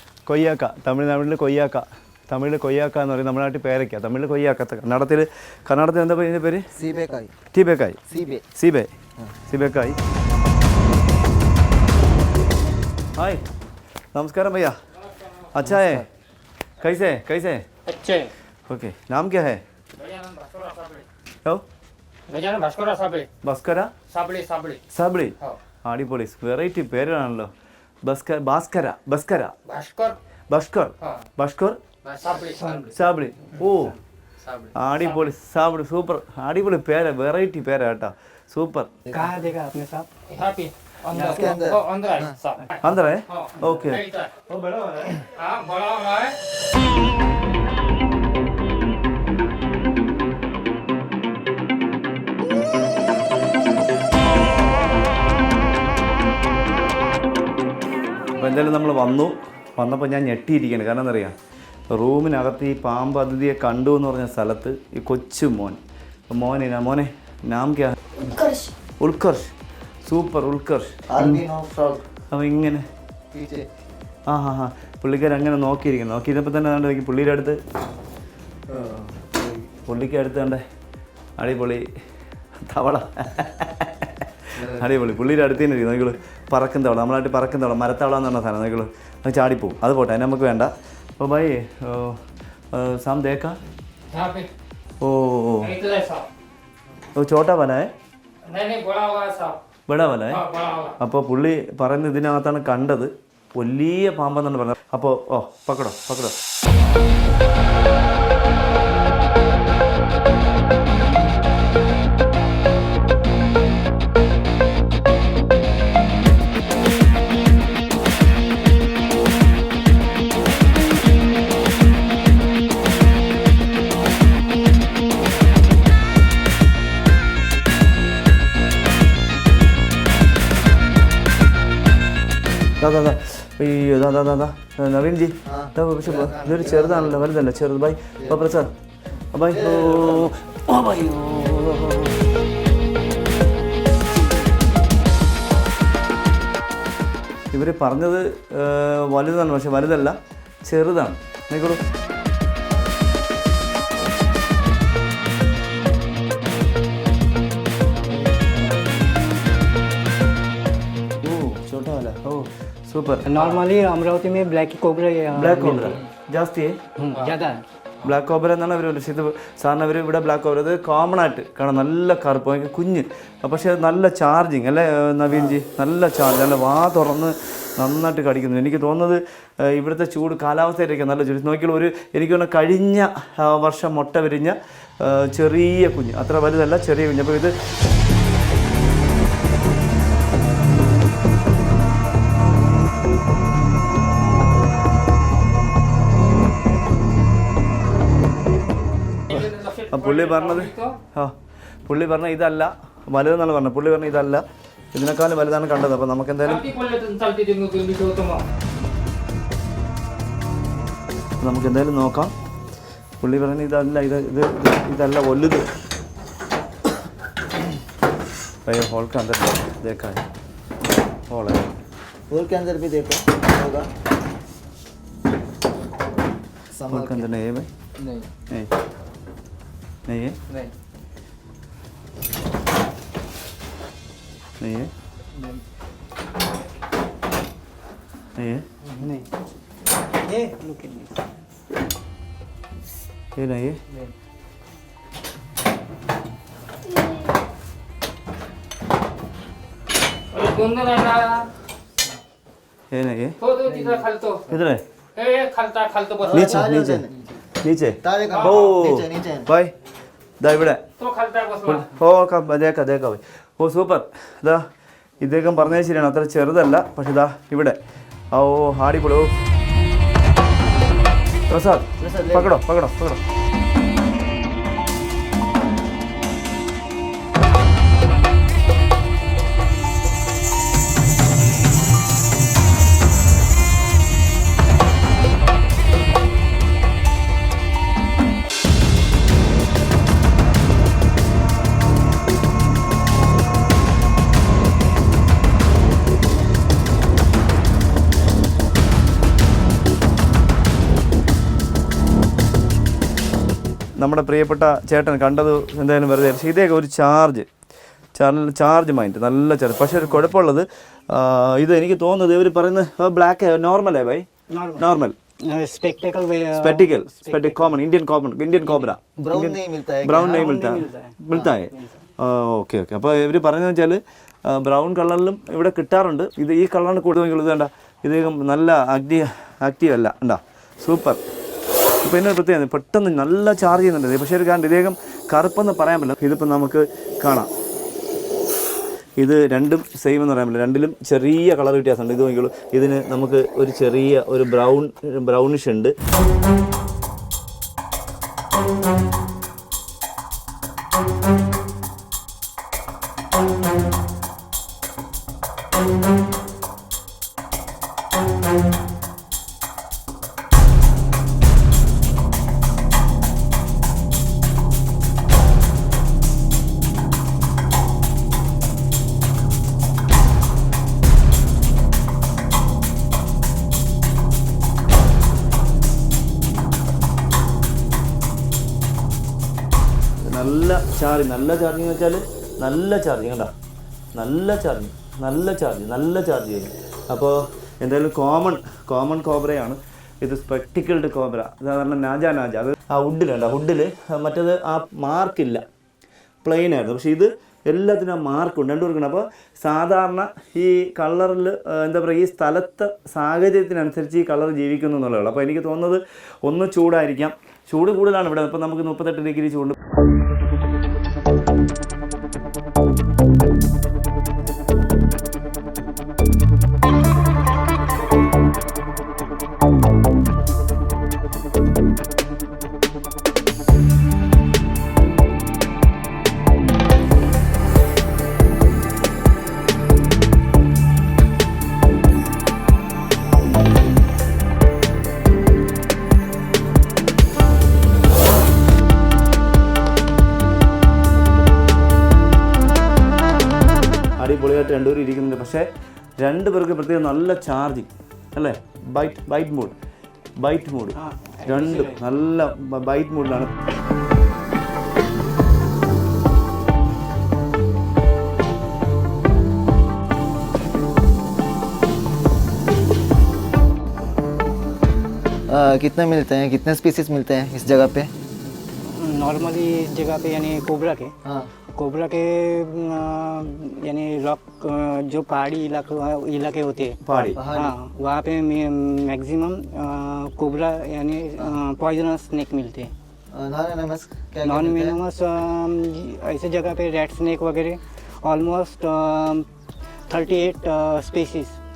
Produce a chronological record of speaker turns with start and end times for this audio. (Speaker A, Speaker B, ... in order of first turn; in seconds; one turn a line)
Speaker A: 0.3-6.7
Speaker B: 6.8-7.3
Speaker A: 7.5-8.0
Speaker B: 8.1-8.5
Speaker A: 8.6-8.9
Speaker A: 9.5-10.0
Speaker A: 13.2-13.4
Speaker A: 14.1-14.8
Speaker A: 15.5-16.1
Speaker B: 15.8-16.0
Speaker A: 16.8-17.6
Speaker C: 17.9-18.3
Speaker A: 18.7-19.6
Speaker C: 20.0-21.1
Speaker C: 22.3-23.3
Speaker A: 23.4-23.9
Speaker C: 24.1-24.8
Speaker A: 24.9-27.5
Speaker A: 28.0-29.6
Speaker C: 29.7-30.2
Speaker A: 30.5-31.8
Speaker C: 32.0-32.9
Speaker D: 32.5-32.9
Speaker A: 32.9-34.0
Speaker C: 34.4-35.2
Speaker A: 34.7-38.9
Speaker D: 39.1-40.1
Speaker C: 40.3-42.8
Speaker D: 41.1-41.7
Speaker B: 41.2-42.3
Speaker A: 42.8-45.2
Speaker C: 43.3-44.3
Speaker C: 45.4-46.4
Speaker A: 58.4-61.4
Speaker A: 61.9-68.3
Speaker A: 69.0-71.5
Speaker B: 71.1-72.1
Speaker A: 72.3-72.8
Speaker B: 73.3-73.7
Speaker A: 74.3-77.6
Speaker B: 78.7-79.7
Speaker A: 79.8-80.6
Speaker A: 81.4-81.9
Speaker A: 82.7-92.2
Speaker A: 92.7-93.6
Speaker C: 94.1-94.5
Speaker A: 95.0-95.7
Speaker C: 95.6-96.3
Speaker A: 97.2-97.9
Speaker C: 98.5-99.6
Speaker A: 99.9-100.4
Speaker C: 100.3-101.0
Speaker A: 101.0-106.3
Speaker A: 132.8-138.7
Speaker B: 135.5-137.3
Speaker A: 139.3-142.2
Speaker B: 139.5-140.3
Speaker A: 147.5-151.8
Speaker A: 161.2-163.3
Speaker D: 163.2-166.0
Speaker C: 163.3-163.6
Speaker A: 165.3-166.8
Speaker D: 167.0-167.6
Speaker A: 168.0-187.6
Speaker C: 199.3-201.0
Speaker A: 199.3-201.3
Speaker A: 201.8-206.7
Speaker C: 206.4-208.4
Speaker A: 211.4-212.3
Speaker A: 213.2-215.7
Speaker A: 218.7-220.2
Speaker A: 221.3-221.7
Speaker B: 222.3-223.9
Speaker B: 226.7-227.3
Speaker A: 226.9-227.7
Speaker A: 230.1-230.4
Speaker A: 234.6-234.9
Speaker A: 238.4-238.7
Speaker D: 239.0-239.3
Speaker D: 240.2-241.2
Speaker A: 243.3-243.8
Speaker C: 250.3-251.5
Speaker A: 252.9-253.4
Speaker C: 253.4-254.5
Speaker A: 254.5-254.8
Speaker C: 255.2-256.7
Speaker B: 256.2-257.1
Speaker A: 256.3-257.1
Speaker A: 257.6-259.7
Speaker B: 258.0-259.5
Speaker C: 258.3-258.6
Speaker A: 260.4-260.8
Speaker C: 261.0-261.9
Speaker A: 261.6-264.6
Speaker A: 265.2-267.8
Speaker A: 268.3-269.4
Speaker A: 271.5-273.2
Speaker B: 272.0-272.5
Speaker A: 304.0-307.5
Speaker A: 308.1-314.3
Speaker D: 314.5-314.9
Speaker A: 314.8-315.1
Speaker D: 315.4-317.8
Speaker A: 316.6-331.2
Speaker D: 318.6-318.9
Speaker B: 319.2-320.5
Speaker D: 320.2-321.1
Speaker D: 321.7-322.0
Speaker A: 332.0-337.5
Speaker A: 339.2-345.9
Speaker A: 380.2-383.5
Speaker A: 384.1-395.6
Speaker A: 396.4-409.8
Speaker A: 444.2-445.7
Speaker A: 446.2-449.7
Speaker A: 450.4-453.5
Speaker D: 450.9-452.1
Speaker B: 465.5-468.1
Speaker D: 468.8-471.1
Speaker B: 471.2-471.5
Speaker D: 471.8-477.0
Speaker A: 477.0-477.4
Speaker B: 477.4-477.7
Speaker D: 477.5-482.9
Speaker B: 483.3-485.0
Speaker D: 484.4-489.5
Speaker D: 490.1-491.6